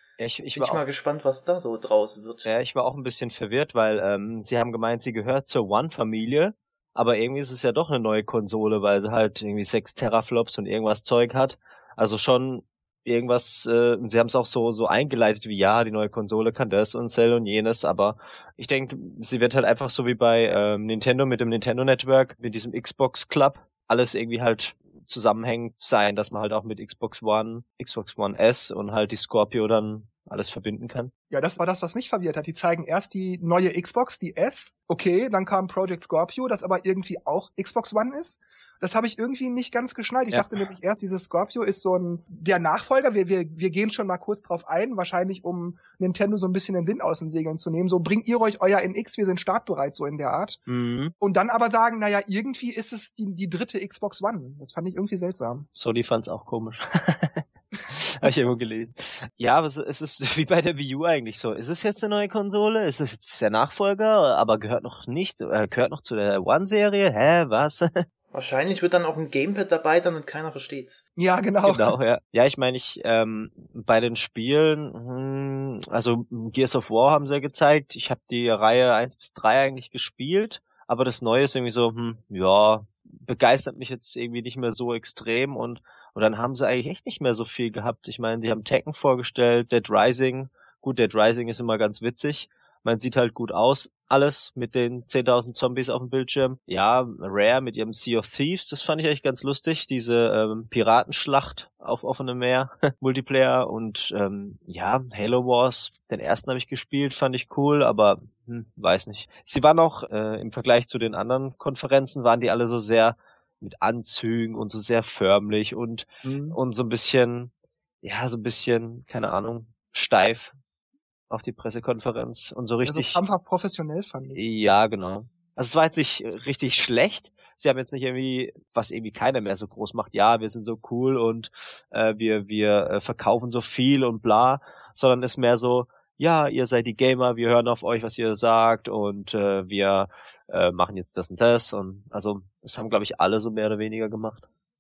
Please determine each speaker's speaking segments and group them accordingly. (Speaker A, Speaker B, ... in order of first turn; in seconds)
Speaker A: 0.2-0.8, 2.4-31.1, 50.7-51.1, 55.7-68.0, 71.6-117.5, 118.0-120.5, 121.3-123.2, 124.3-144.4
Speaker B: 0.5-2.5, 68.3-71.0
Speaker C: 31.3-50.6, 51.2-55.7, 71.2-71.9, 116.2-116.6, 122.8-124.4